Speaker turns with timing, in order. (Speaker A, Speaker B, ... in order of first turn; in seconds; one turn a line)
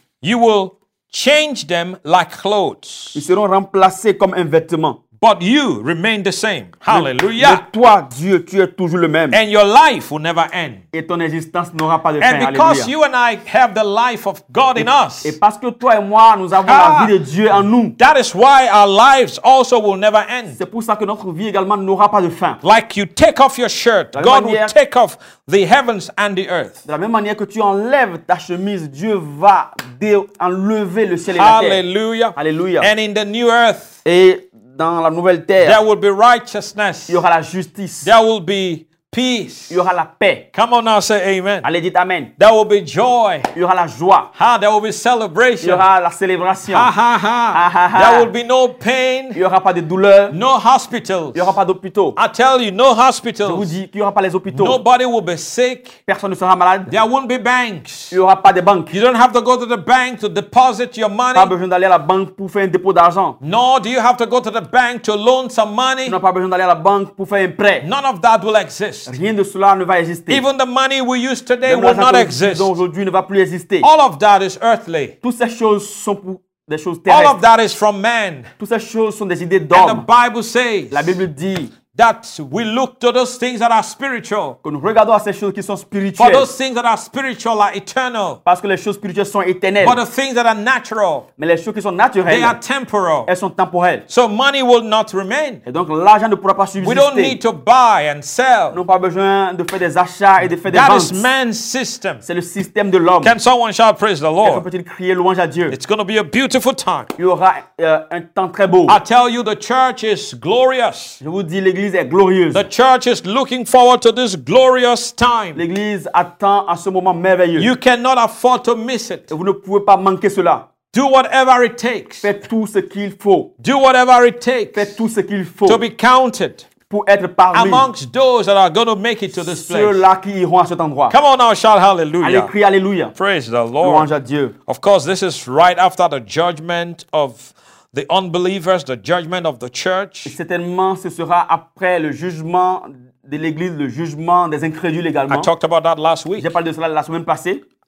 Speaker A: 0.2-3.2
Speaker B: 3.1-5.0
Speaker A: 5.2-7.6
Speaker B: 6.9-9.4
Speaker A: 9.3-10.8
Speaker B: 10.9-12.9
Speaker A: 12.2-15.4
Speaker B: 14.8-17.9
Speaker A: 16.6-17.1
Speaker A: 18.0-20.6
Speaker B: 20.5-22.6
Speaker A: 22.6-26.8
Speaker B: 24.1-24.7
Speaker B: 26.9-31.8
Speaker A: 31.3-34.0
Speaker B: 32.3-32.9
Speaker B: 34.0-35.8
Speaker A: 35.6-37.2
Speaker B: 37.1-38.1
Speaker A: 38.0-39.8
Speaker B: 39.7-40.5
Speaker A: 40.5-41.6
Speaker B: 41.6-42.3
Speaker A: 42.4-43.5
Speaker B: 43.5-44.3
Speaker A: 44.3-45.8
Speaker B: 45.6-46.9
Speaker A: 46.6-49.4
Speaker B: 47.5-48.3
Speaker B: 49.3-50.4
Speaker A: 50.3-51.5
Speaker B: 51.3-52.2
Speaker A: 52.1-53.7
Speaker B: 53.4-54.8
Speaker A: 54.5-56.0
Speaker B: 56.1-56.9
Speaker A: 56.9-58.2
Speaker B: 58.1-59.0
Speaker A: 58.9-61.5
Speaker B: 61.3-63.4
Speaker A: 63.4-66.2
Speaker B: 66.0-67.9
Speaker A: 67.8-69.1
Speaker B: 69.0-70.4
Speaker A: 70.3-72.8
Speaker B: 71.6-73.9
Speaker A: 73.8-75.1
Speaker B: 75.2-77.4
Speaker A: 77.1-78.5
Speaker B: 78.6-80.0
Speaker A: 79.7-81.2
Speaker B: 80.9-81.7
Speaker A: 81.9-84.6
Speaker B: 84.6-86.5
Speaker A: 86.2-88.4
Speaker B: 88.4-90.0
Speaker A: 89.8-91.3
Speaker B: 91.4-92.6
Speaker A: 92.3-93.3
Speaker B: 93.3-94.0
Speaker A: 94.1-95.6
Speaker B: 95.7-97.4
Speaker A: 96.8-98.8
Speaker B: 98.7-101.2
Speaker A: 100.6-102.2
Speaker B: 102.2-103.3
Speaker A: 103.2-104.6
Speaker B: 104.4-105.7
Speaker A: 105.7-107.1
Speaker B: 107.2-109.0
Speaker A: 108.9-111.2
Speaker B: 111.2-112.7
Speaker A: 112.5-115.6
Speaker B: 115.5-117.7
Speaker A: 117.6-119.3
Speaker B: 119.3-120.7
Speaker A: 120.9-122.3
Speaker B: 122.2-123.5
Speaker A: 123.6-124.9
Speaker B: 124.7-125.8
Speaker A: 125.7-126.7
Speaker B: 126.9-127.9
Speaker A: 127.5-130.0
Speaker B: 129.4-131.2
Speaker A: 131.1-132.5
Speaker B: 132.2-133.1
Speaker A: 133.2-134.1
Speaker B: 133.8-134.5
Speaker A: 134.7-140.3
Speaker B: 140.2-145.5
Speaker A: 145.3-146.5
Speaker B: 146.4-147.6